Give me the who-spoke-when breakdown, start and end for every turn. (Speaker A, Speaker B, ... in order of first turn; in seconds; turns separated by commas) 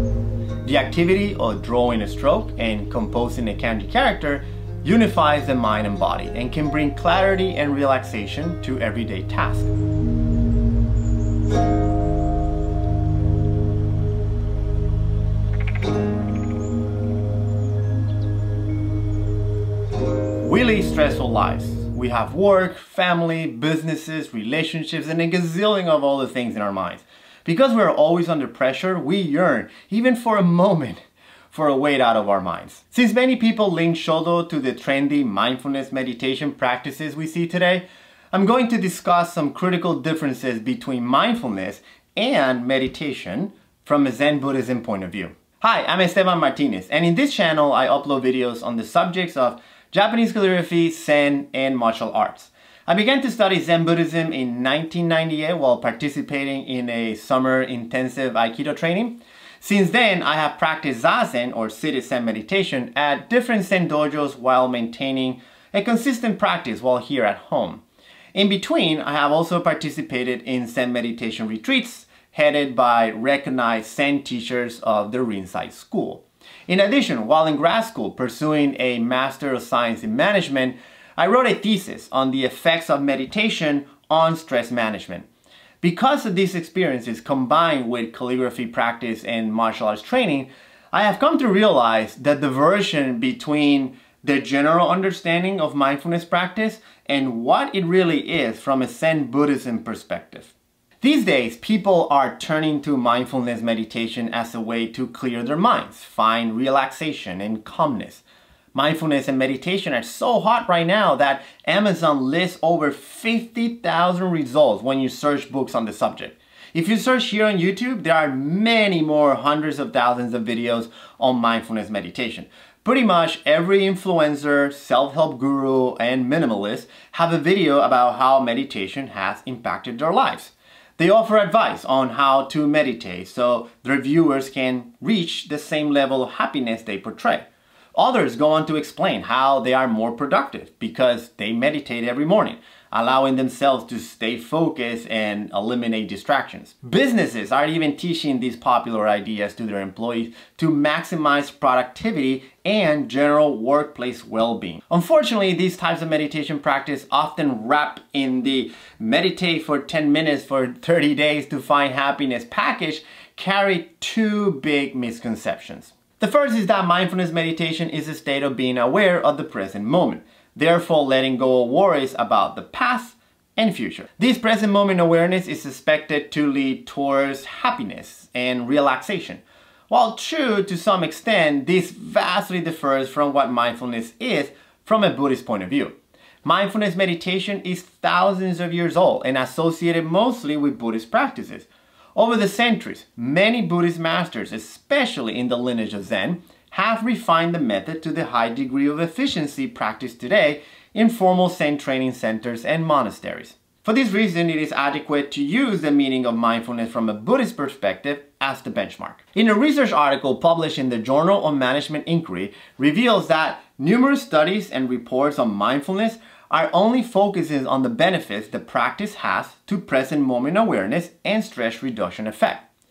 Speaker A: 0.6-9.7, Speaker A: 20.4-31.0, Speaker A: 31.5-67.8, Speaker A: 68.3-85.3, Speaker A: 85.8-222.7